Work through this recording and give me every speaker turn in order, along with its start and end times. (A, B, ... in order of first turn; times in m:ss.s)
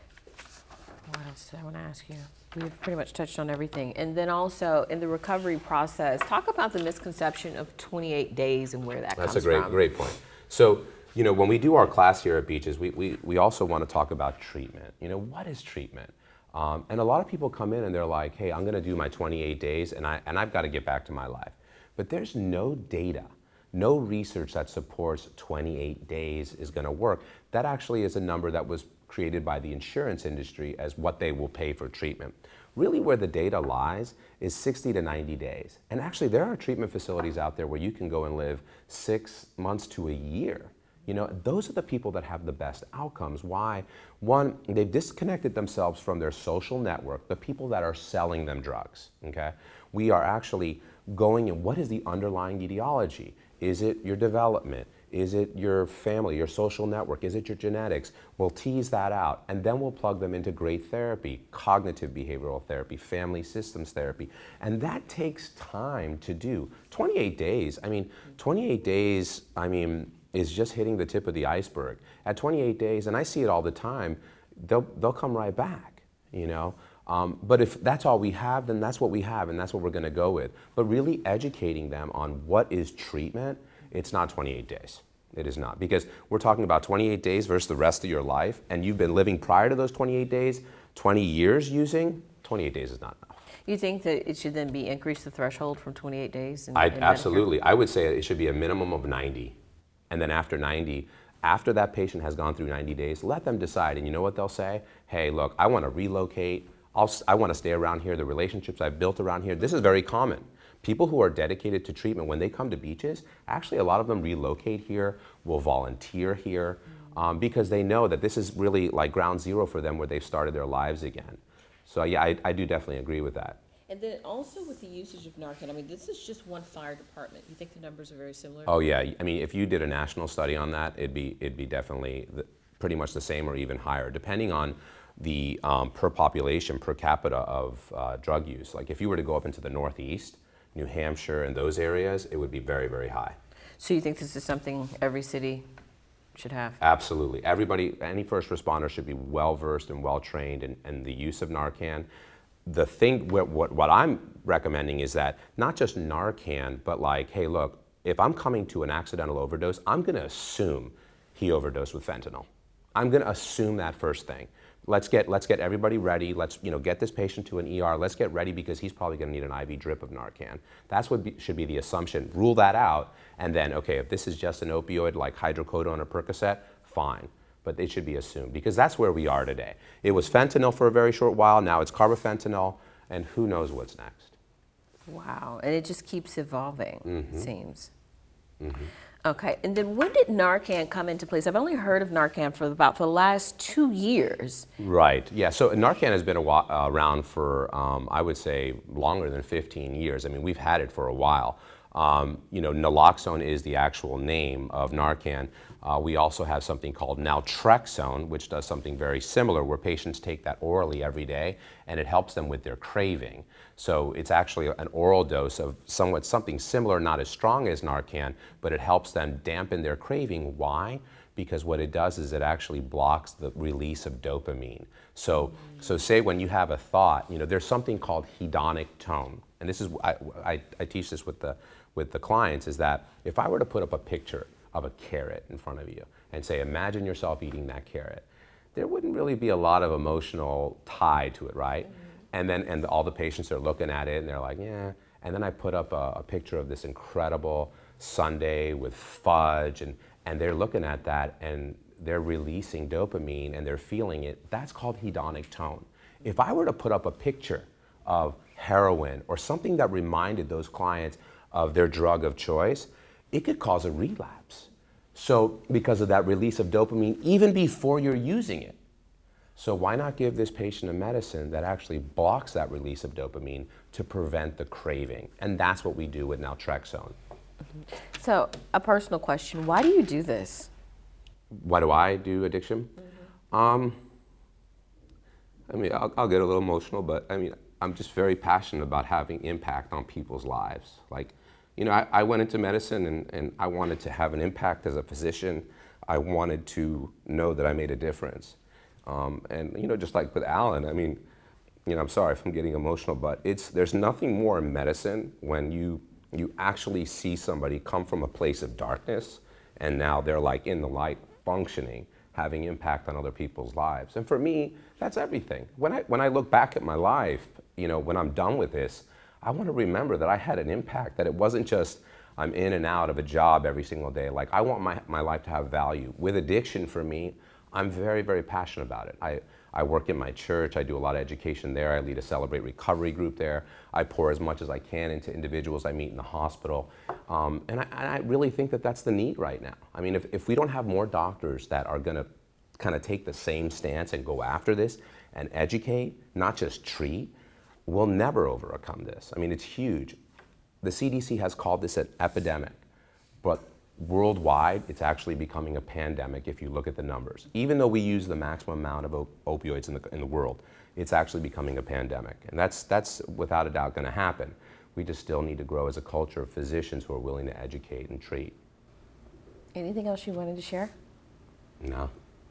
0:01.1-0:09.8 A
0:09.2-1:33.3 B
1:33.6-1:37.5 A
1:36.8-1:39.6 B
1:40.1-2:03.6 B
2:03.9-2:08.8 A
2:08.6-2:23.4 B
2:23.8-2:25.6 A
2:26.4-2:26.8 A
2:26.8-2:32.1 B
2:32.6-3:04.4 B
3:05.1-3:07.9 A
3:07.0-3:07.5 B
3:08.6-3:08.9 B
3:09.2-3:14.7 A
3:14.8-4:28.8 B
4:29.6-4:37.2 B
4:38.2-4:40.7 A
4:41.5-4:42.9 B
4:43.5-4:44.0 B
4:45.7-5:01.2 B
5:01.9-5:47.3 B
5:47.9-5:50.2 B
5:50.8-5:52.8 B
5:53.4-6:08.6 B
6:09.7-6:10.9 A
6:11.8-6:12.1 B